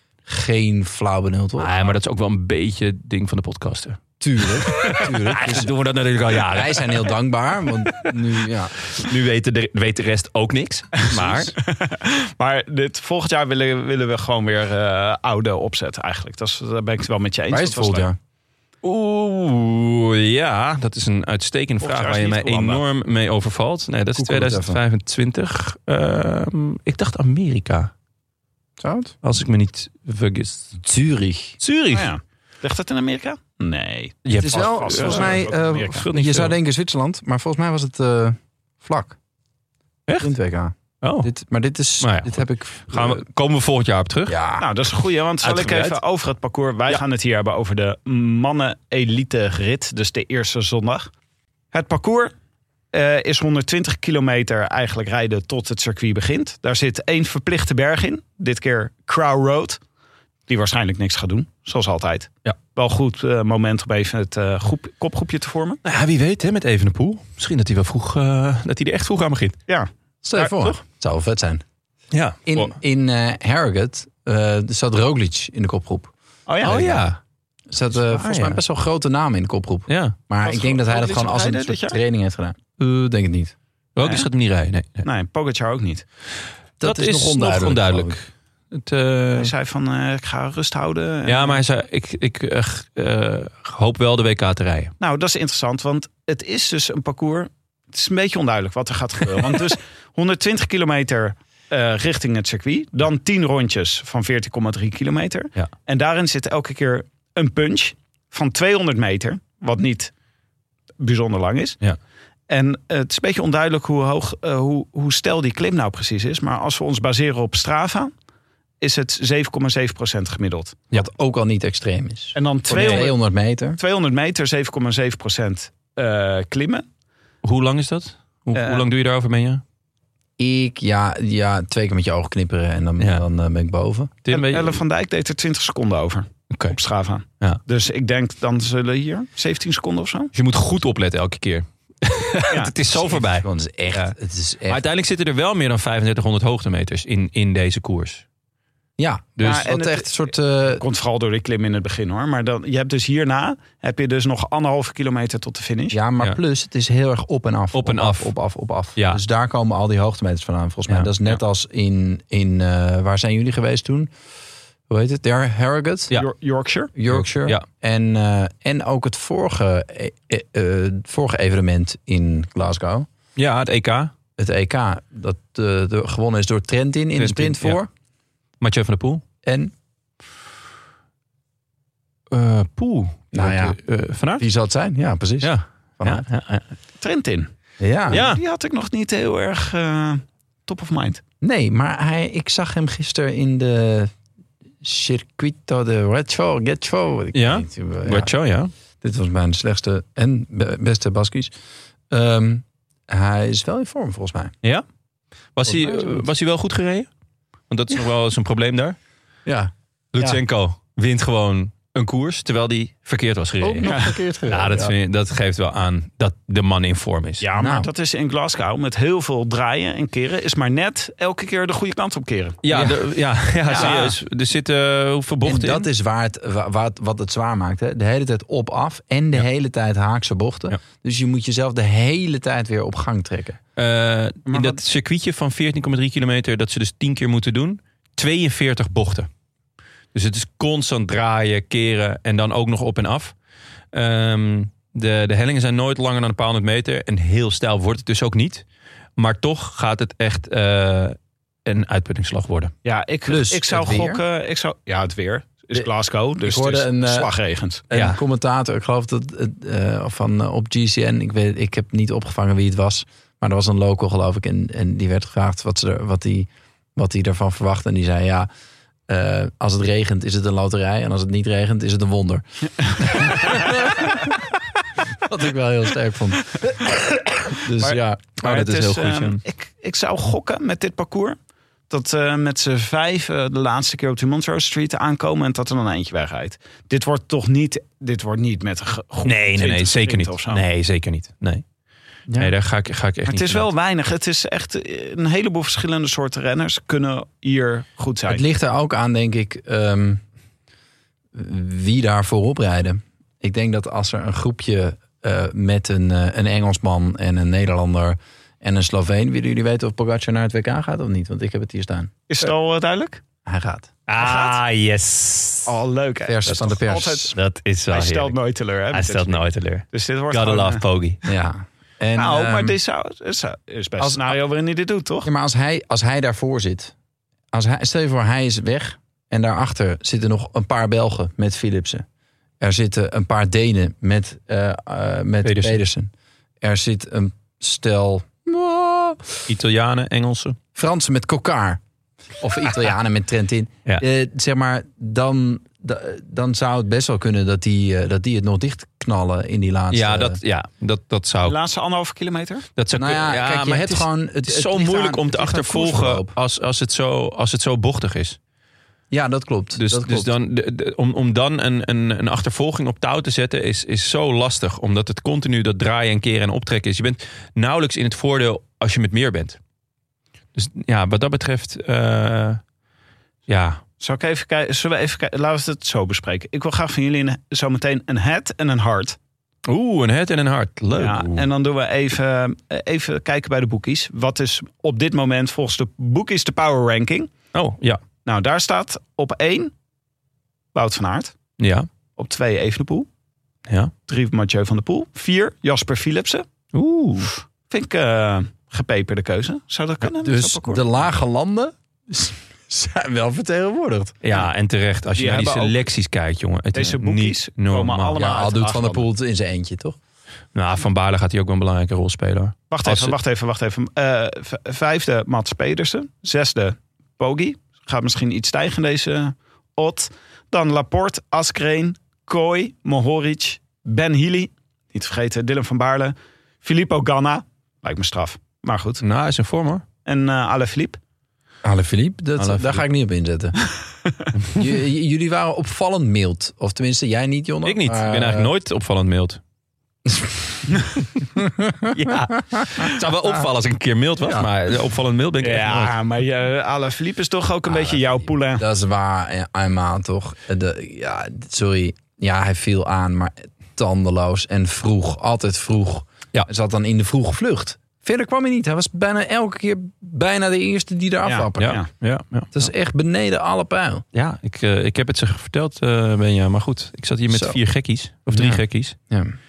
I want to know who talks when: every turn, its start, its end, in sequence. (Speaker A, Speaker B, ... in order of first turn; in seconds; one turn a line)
Speaker A: 0.3-1.9
Speaker B: 1.6-7.1
Speaker A: 4.2-5.7
Speaker A: 6.3-8.8
Speaker B: 8.9-11.6
Speaker C: 11.0-18.1
Speaker A: 17.5-18.2
Speaker B: 18.8-27.9
Speaker C: 21.8-22.8
Speaker A: 24.1-24.8
Speaker A: 28.8-29.1
Speaker B: 29.2-30.8
Speaker A: 30.8-31.6
Speaker B: 31.6-32.1
Speaker C: 31.9-36.0
Speaker B: 34.2-36.6
Speaker A: 34.4-39.2
Speaker A: 40.2-43.2
Speaker B: 41.0-41.3
Speaker B: 42.0-44.4
Speaker A: 44.3-44.7
Speaker C: 44.6-51.1
Speaker B: 45.4-46.0
Speaker C: 51.7-52.3
Speaker C: 52.9-59.8
Speaker C: 60.5-65.8
Speaker B: 65.8-69.6
Speaker C: 69.7-70.7
Speaker A: 70.2-71.6
Speaker B: 72.1-72.7
Speaker A: 72.5-76.1
Speaker C: 76.5-77.1
Speaker B: 76.6-77.2
Speaker A: 77.7-83.5
Speaker B: 77.9-78.6
Speaker B: 79.9-80.2
Speaker C: 80.4-82.0
Speaker B: 84.0-85.1
Speaker C: 84.0-84.3
Speaker C: 85.0-86.0
Speaker A: 86.8-88.2
Speaker B: 86.8-89.5
Speaker C: 89.4-91.6
Speaker B: 91.3-94.9
Speaker C: 95.0-110.1
Speaker C: 111.0-111.8
Speaker C: 112.5-118.1
Speaker C: 118.8-120.8
Speaker A: 120.9-123.8
Speaker C: 122.3-123.2
Speaker B: 122.7-123.1
Speaker C: 123.8-126.8
Speaker B: 127.4-129.6
Speaker C: 128.6-128.9
Speaker A: 130.4-134.1
Speaker B: 133.0-133.2
Speaker B: 134.2-134.8
Speaker C: 134.3-140.3
Speaker B: 136.5-136.8
Speaker B: 140.3-144.1
Speaker C: 142.5-142.8
Speaker A: 143.0-144.8
Speaker B: 144.7-148.2
Speaker A: 149.0-150.8
Speaker B: 149.4-149.7
Speaker C: 149.4-156.0
Speaker A: 155.9-164.1
Speaker B: 157.7-158.3
Speaker A: 164.9-166.1
Speaker C: 166.1-166.9
Speaker A: 167.0-173.1
Speaker B: 167.1-167.6
Speaker B: 173.4-174.1
Speaker A: 174.4-177.9
Speaker B: 177.2-177.8
Speaker B: 178.6-179.2
Speaker A: 179.4-179.7
Speaker B: 182.3-184.4
Speaker A: 183.3-183.8
Speaker A: 184.4-186.2
Speaker B: 185.4-186.7
Speaker C: 187.0-187.5
Speaker A: 187.8-188.2
Speaker B: 188.1-188.4
Speaker C: 188.1-191.2
Speaker A: 191.4-194.1
Speaker A: 194.8-198.3
Speaker B: 197.3-198.7
Speaker A: 199.0-201.5
Speaker A: 202.1-204.5
Speaker B: 205.6-207.1
Speaker A: 205.7-206.2
Speaker B: 207.7-209.0
Speaker A: 209.5-209.7
Speaker B: 210.1-217.5
Speaker A: 213.6-214.9
Speaker C: 213.9-214.2
Speaker C: 217.4-222.8
Speaker A: 217.6-217.9
Speaker B: 222.6-225.9
Speaker A: 222.7-223.0
Speaker C: 223.7-224.1
Speaker A: 225.4-233.6
Speaker B: 233.8-239.3
Speaker C: 234.5-234.8
Speaker B: 240.1-243.3
Speaker B: 243.9-248.7
Speaker B: 249.2-252.7
Speaker C: 252.8-257.8
Speaker A: 253.3-254.2
Speaker A: 256.4-257.3
Speaker A: 257.9-268.5
Speaker B: 257.9-258.2
Speaker A: 269.1-274.3
Speaker A: 275.2-276.9
Speaker A: 277.6-278.2
Speaker C: 277.8-281.4
Speaker B: 278.4-279.4
Speaker C: 281.9-290.6
Speaker B: 289.2-291.6
Speaker A: 292.3-292.5
Speaker B: 292.4-293.7
Speaker C: 293.3-298.4
Speaker A: 298.3-300.2
Speaker A: 301.3-312.1
Speaker C: 312.3-313.2
Speaker A: 313.5-313.9
Speaker B: 314.1-315.8
Speaker C: 314.2-314.6
Speaker C: 315.7-317.4
Speaker A: 316.3-317.4
Speaker B: 317.3-318.4
Speaker C: 317.9-320.8
Speaker B: 318.9-321.2
Speaker A: 321.3-322.8
Speaker C: 322.1-325.3
Speaker A: 324.0-324.4
Speaker A: 325.2-326.9
Speaker A: 327.5-332.1
Speaker A: 332.6-339.4
Speaker B: 335.4-335.8
Speaker B: 339.5-340.6
Speaker A: 340.8-341.8
Speaker A: 342.4-350.4
Speaker B: 349.9-351.6
Speaker C: 351.4-352.7
Speaker B: 352.8-358.4
Speaker A: 352.9-356.4
Speaker A: 359.1-360.3
Speaker B: 359.8-369.6
Speaker B: 370.6-372.6
Speaker B: 373.5-373.8
Speaker C: 374.0-379.2
Speaker B: 379.7-381.5
Speaker C: 380.9-387.3
Speaker B: 387.5-388.0
Speaker C: 388.2-389.7
Speaker C: 390.7-391.4
Speaker B: 391.6-391.9
Speaker C: 392.2-393.1
Speaker B: 393.7-393.9
Speaker C: 394.1-396.4
Speaker B: 396.7-397.3
Speaker C: 397.7-400.8
Speaker A: 400.2-404.1
Speaker B: 404.2-408.2
Speaker C: 405.1-405.8
Speaker C: 406.8-409.1
Speaker A: 408.2-410.0
Speaker B: 410.5-413.2
Speaker C: 412.7-429.0
Speaker B: 429.0-429.9
Speaker C: 430.1-431.0
Speaker A: 431.6-433.6
Speaker B: 432.4-432.8
Speaker A: 434.5-438.5
Speaker B: 437.6-439.4
Speaker A: 440.1-440.4
Speaker A: 441.4-441.9
Speaker B: 441.9-445.9
Speaker C: 445.4-448.6
Speaker A: 448.6-461.8
Speaker C: 461.3-461.9
Speaker B: 461.6-462.7
Speaker A: 462.5-464.0
Speaker B: 464.1-469.0
Speaker A: 467.3-467.6
Speaker A: 468.3-469.4